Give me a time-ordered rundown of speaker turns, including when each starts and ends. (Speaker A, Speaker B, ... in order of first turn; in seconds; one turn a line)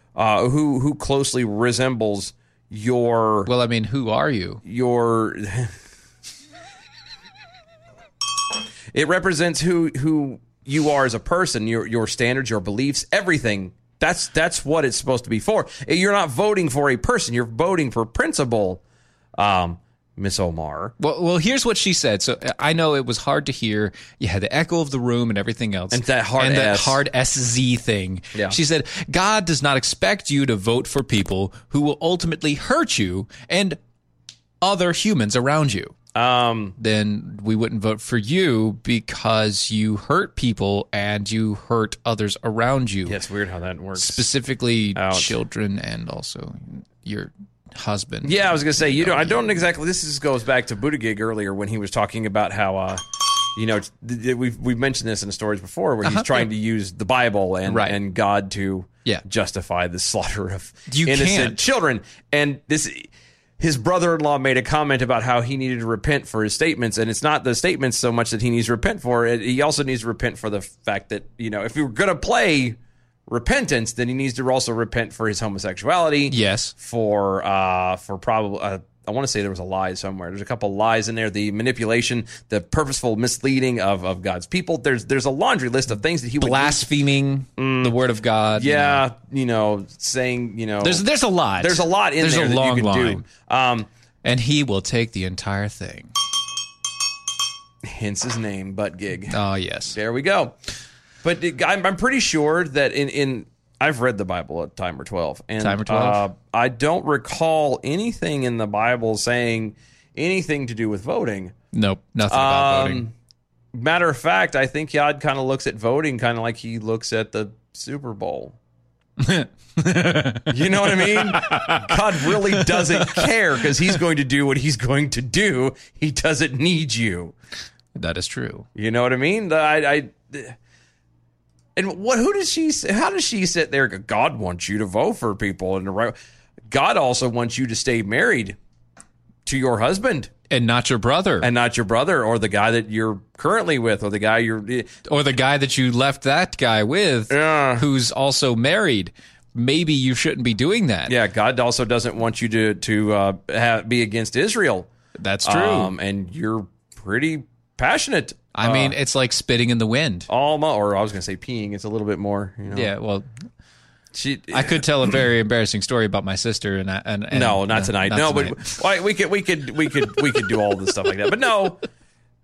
Speaker A: 0.2-3.5
Speaker B: 3.5-4.6
Speaker A: 4.6-5.7
Speaker A: 8.9-18.8
Speaker A: 19.4-20.9
Speaker B: 21.0-33.8
Speaker A: 25.9-27.0
Speaker B: 34.6-36.0
Speaker A: 36.1-36.8
Speaker B: 36.8-43.2
Speaker A: 43.1-44.3
Speaker B: 44.0-49.6
Speaker A: 45.0-45.3
Speaker A: 48.2-53.0
Speaker A: 53.6-86.9
Speaker B: 56.0-56.5
Speaker B: 57.7-58.0
Speaker B: 60.9-61.6
Speaker B: 76.3-76.7
Speaker B: 86.4-89.0
Speaker A: 87.6-88.0
Speaker A: 88.5-91.0
Speaker B: 90.8-93.3
Speaker A: 91.6-93.9
Speaker B: 94.2-96.1
Speaker A: 97.8-99.4
Speaker B: 99.3-100.0
Speaker A: 99.9-100.6
Speaker A: 101.2-111.5
Speaker B: 105.6-106.2
Speaker B: 111.7-113.0
Speaker A: 112.3-113.1
Speaker A: 113.7-118.6
Speaker B: 119.2-123.3
Speaker A: 120.5-127.3
Speaker B: 128.0-128.7
Speaker A: 128.8-130.6
Speaker A: 131.8-136.2
Speaker A: 136.7-138.6
Speaker A: 139.5-140.3
Speaker B: 140.5-141.5
Speaker A: 141.4-144.9
Speaker B: 145.1-151.1
Speaker A: 147.3-147.8
Speaker A: 151.1-154.9
Speaker B: 155.2-155.9
Speaker A: 155.4-159.0
Speaker B: 158.6-160.3
Speaker A: 160.3-162.9
Speaker B: 162.7-163.3
Speaker A: 164.1-164.8
Speaker B: 164.5-168.7
Speaker A: 167.3-171.8